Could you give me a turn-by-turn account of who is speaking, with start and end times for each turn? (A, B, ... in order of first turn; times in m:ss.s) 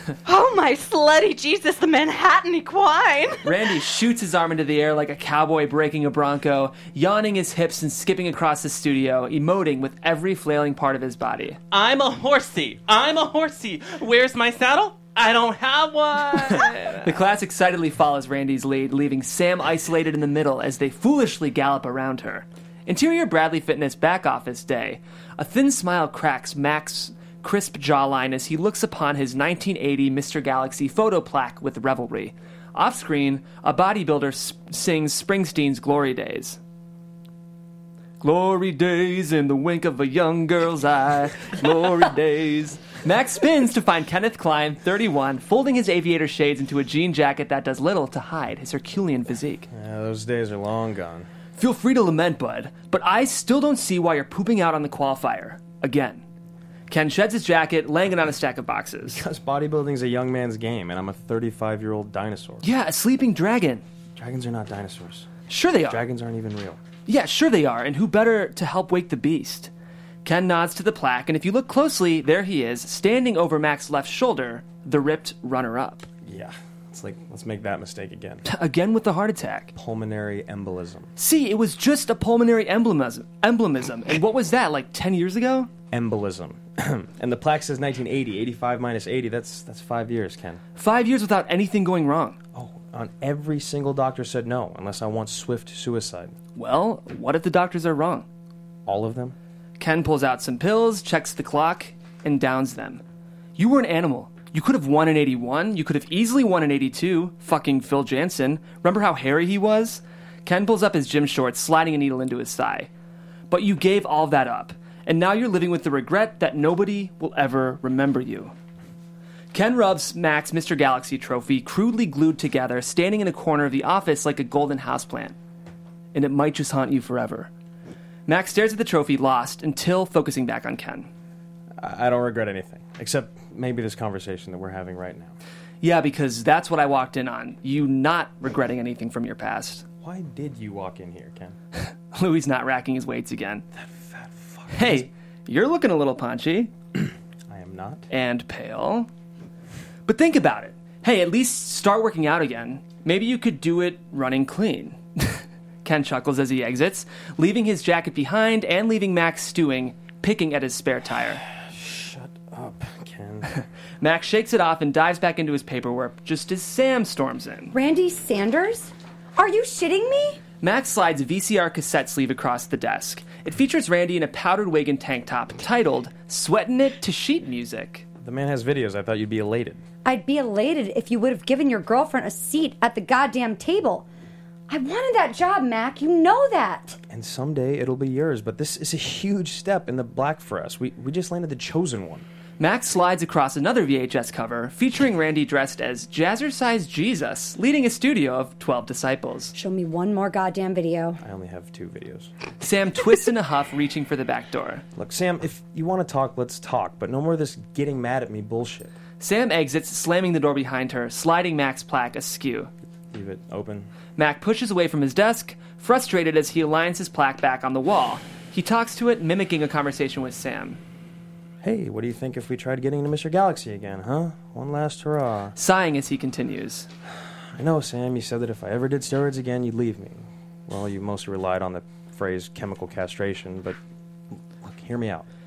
0:00.3-0:03.5 A
0:03.4-0:11.6 B
0:11.7-0:17.1 C
0:17.0-0:36.6 B
0:38.2-0:49.7 B
0:49.7-0:51.3 D
0:51.6-0:56.2 B
0:56.9-0:59.2 B
0:59.1-1:02.6 D
1:02.6-1:03.8 B
1:04.2-1:05.3 D
1:05.5-1:06.0 B
1:05.8-1:06.8 D
1:07.1-1:09.7 B
1:10.2-1:16.1 B
1:16.2-1:18.4 D
1:18.5-1:19.7 B
1:19.7-1:21.1 D
1:21.2-1:25.7 B
1:25.9-1:30.6 D
1:30.8-1:32.4 B
1:32.6-1:36.4 D
1:36.6-1:38.3 B
1:38.9-1:39.4 D
1:39.8-1:43.0 B
1:43.6-1:52.9 B
1:53.5-1:58.5 B
1:59.5-2:05.4 B
2:06.1-2:07.5 B
2:08.3-2:11.1 B
2:11.8-2:15.3 D
2:15.8-2:19.8 B
2:20.0-2:21.6 D
2:21.8-2:23.6 B
2:23.8-2:25.1 D
2:24.7-2:26.7 B
2:27.5-2:28.0 D
2:28.1-2:29.1 B
2:30.1-2:41.4 B
2:41.5-2:43.5 D
2:44.0-2:47.7 B
2:47.7-2:50.4 E
2:50.6-2:58.0 B
2:58.2-2:59.8 D
3:00.0-3:04.1 E
3:04.7-3:07.0 E
3:07.0-3:12.3 D
3:12.6-3:19.5 B
3:19.5-3:21.2 E
3:21.2-3:22.3 D
3:22.6-3:24.8 B
3:25.0-3:29.0 D
3:29.2-3:32.7 B
3:33.1-3:33.9 D
3:34.2-3:40.8 B
3:41.6-3:45.6 D
3:45.6-3:46.9 B
3:47.2-3:53.8 D
3:54.3-3:55.3 D